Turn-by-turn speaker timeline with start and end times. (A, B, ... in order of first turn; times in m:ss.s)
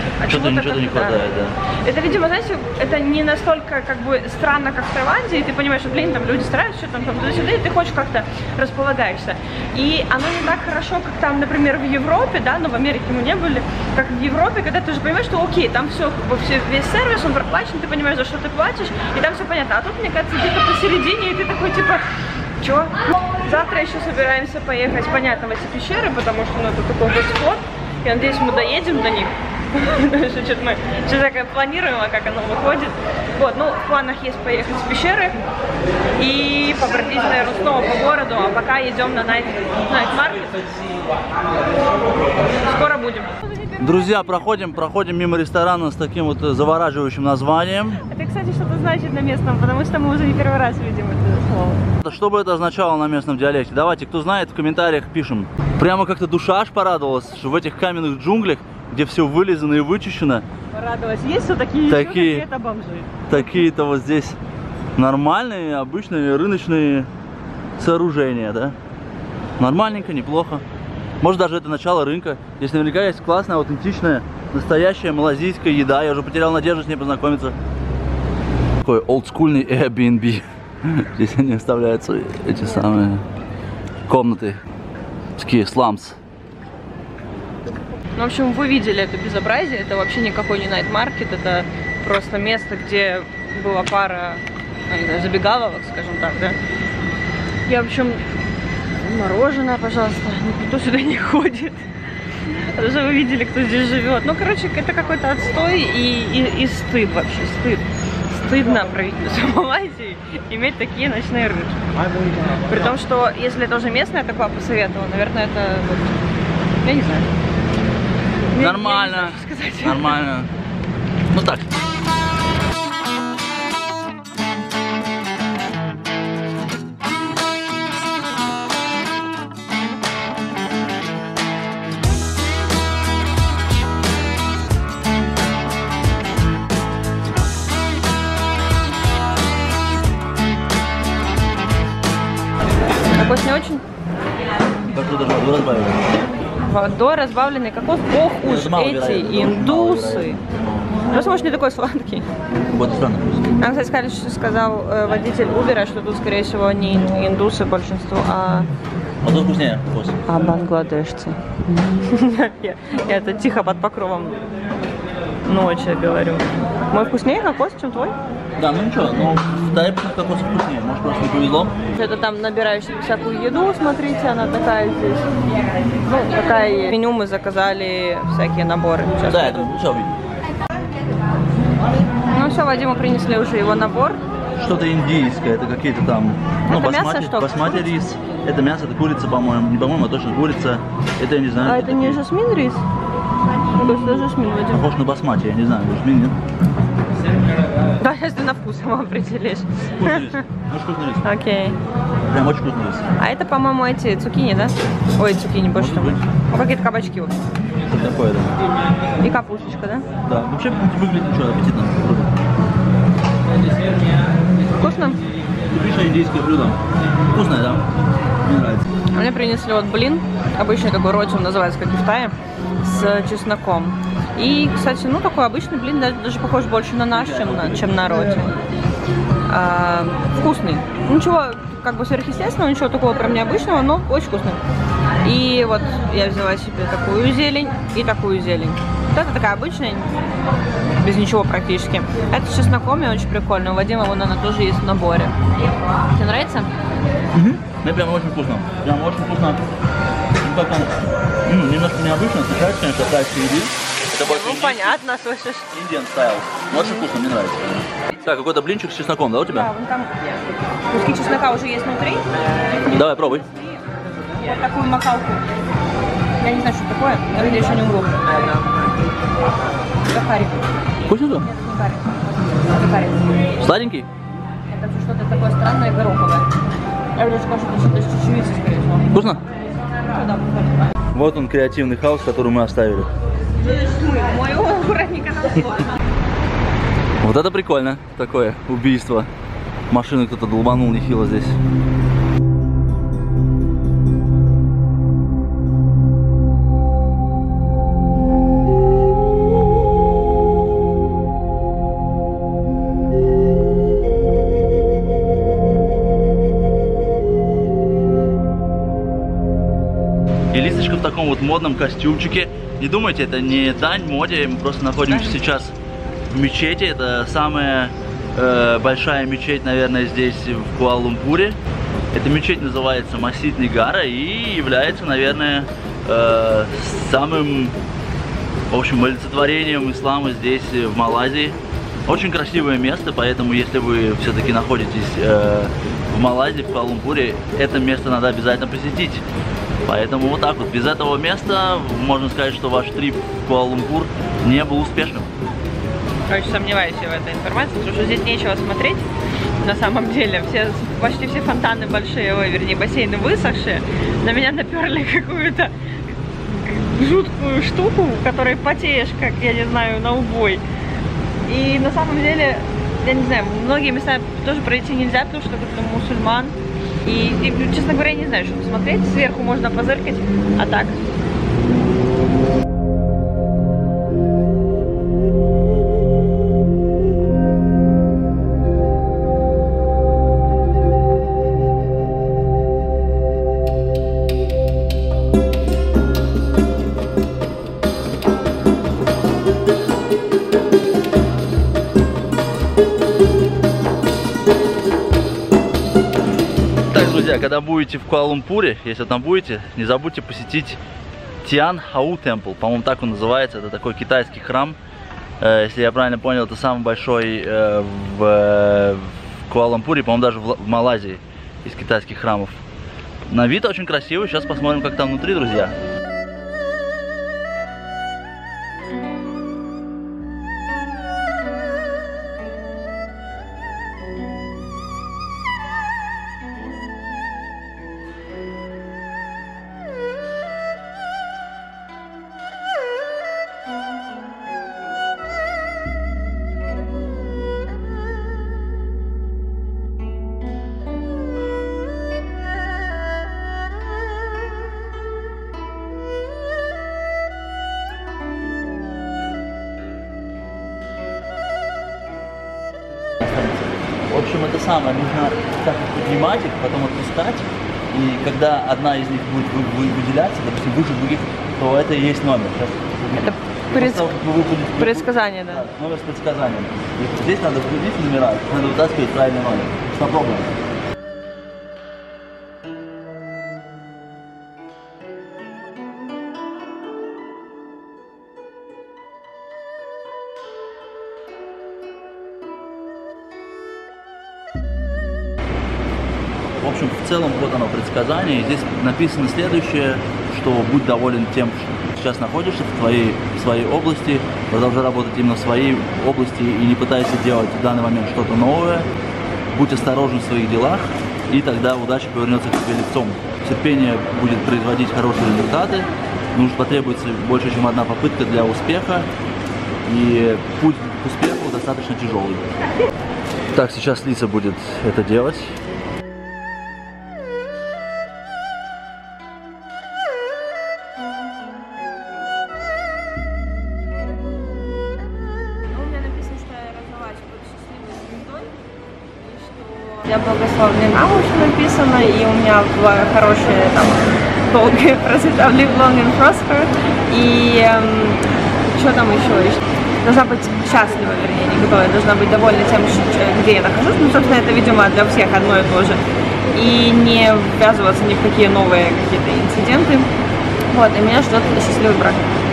0:00.2-0:22.1 A
0:00.2-0:01.6 B
0:22.6-0:35.4 A
0:36.2-0:40.7 A
0:42.6-0:44.2 A
0:43.8-0:48.0 B
0:48.0-0:51.9 A
0:52.0-1:00.5 B
1:00.7-1:03.4 A
1:01.9-1:02.5 B
1:03.3-1:04.4 B
1:05.0-1:07.1 B
1:07.8-1:08.8 B
1:09.6-1:10.6 B
1:11.2-1:17.6 B
1:18.8-1:23.2 B
1:22.6-1:22.9 A
1:24.1-1:24.6 B
1:25.4-1:26.2 B
1:28.2-1:36.6 A
1:37.7-1:38.2 A
1:39.0-1:41.8 A
1:42.4-1:56.2 A
1:56.8-1:57.3 A
1:58.5-2:00.2 A
1:58.6-2:00.5 B
2:01.3-2:01.7 B
2:23.1-2:23.8 A
2:24.9-2:26.0 B
2:26.6-2:30.4 A
2:28.4-2:30.9 B
2:31.1-2:32.2 A
2:32.7-2:33.6 B
2:33.6-2:38.7 A
2:39.2-2:40.2 B
2:40.3-2:44.4 A
2:45.4-2:48.2 A
2:48.6-2:51.9 B
2:51.9-2:55.3 A
2:56.0-2:59.7 A
2:59.3-3:00.2 B
3:02.3-3:04.2 A
3:04.6-3:12.2 B
3:06.7-3:08.3 A
3:11.6-3:12.8 A
3:13.8-3:14.9 A
3:14.7-3:16.4 B
3:18.0-3:20.4 A
3:20.0-3:21.3 B
3:21.2-3:21.8 A
3:22.3-3:23.1 B
3:23.2-3:27.4 A
3:25.8-3:26.2 B
3:27.9-3:28.6 B
3:29.2-3:30.1 A
3:30.2-3:32.3 B
3:34.7-3:35.2 A
3:35.7-3:36.8 B
3:37.3-3:37.9 B
3:38.4-3:38.9 B
3:39.1-3:48.5 A
3:47.1-3:48.5 B
3:49.5-3:54.6 A
3:55.2-4:00.1 A
4:01.0-4:05.4 A
4:06.1-4:06.7 A
4:07.3-4:09.6 B
4:10.4-4:10.9 B
4:11.5-4:15.0 B
4:14.2-4:15.7 A
4:15.7-4:19.7 B
4:19.5-4:20.4 A
4:20.9-4:22.2 A
4:22.8-4:23.5 B
4:24.4-4:25.4 A
4:26.4-4:28.7 A
4:30.1-4:30.7 A
4:31.0-4:31.5 B
4:31.4-4:33.5 A
4:33.6-4:34.1 B
4:34.7-4:36.5 A
4:37.2-4:39.1 A
4:39.1-4:39.4 B
4:39.9-4:40.8 A
4:41.1-4:43.1 B
4:43.6-4:45.9 A
4:47.2-4:49.3 B
4:49.9-4:51.6 B
5:10.5-5:15.8 B
5:15.1-5:15.4 A
5:16.3-5:21.6 B
5:22.1-5:27.8 B
5:28.7-5:39.2 B
5:39.8-5:45.3 B
5:46.3-5:49.1 A
5:49.6-5:55.7 A
5:56.4-6:00.6 A
6:01.5-6:11.0 A
6:36.9-6:40.8 B
6:41.4-6:44.8 B
6:45.4-6:52.6 B
6:53.3-6:55.8 B
7:33.2-7:50.5 B
7:43.2-7:44.2 A
7:44.8-7:45.7 A
8:06.6-8:18.9 B
8:19.5-8:29.1 B
8:29.9-8:32.5 B
8:33.5-8:35.6 B
8:45.7-9:06.0 A
9:06.5-9:10.1 A
9:10.7-9:12.3 A